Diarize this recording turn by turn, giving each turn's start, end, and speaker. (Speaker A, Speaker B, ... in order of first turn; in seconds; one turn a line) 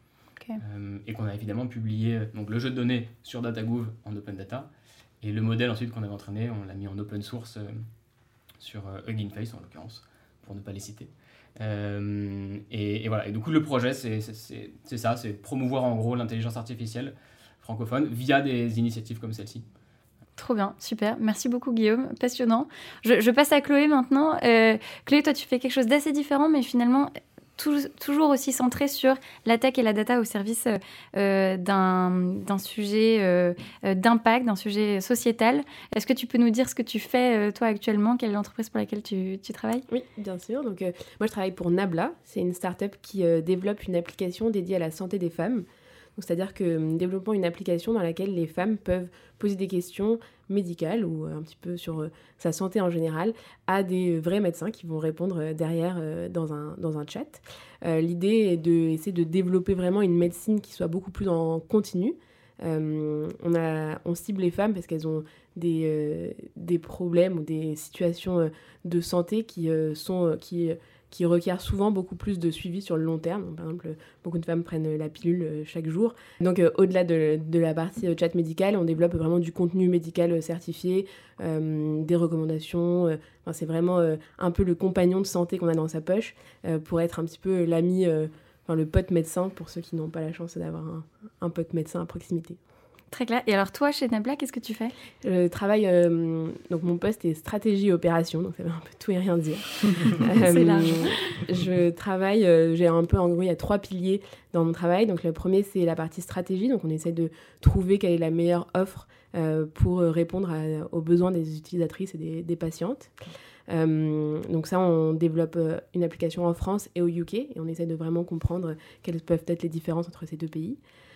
Speaker A: 0.6-4.7
Speaker A: 5.2-7.8
Speaker A: 8.6-19.6
Speaker B: 20.4-39.8
Speaker C: 39.9-92.6
Speaker B: 93.1-94.9
Speaker C: 95.2-113.1
Speaker B: 100.4-101.4
Speaker C: 113.7-120.8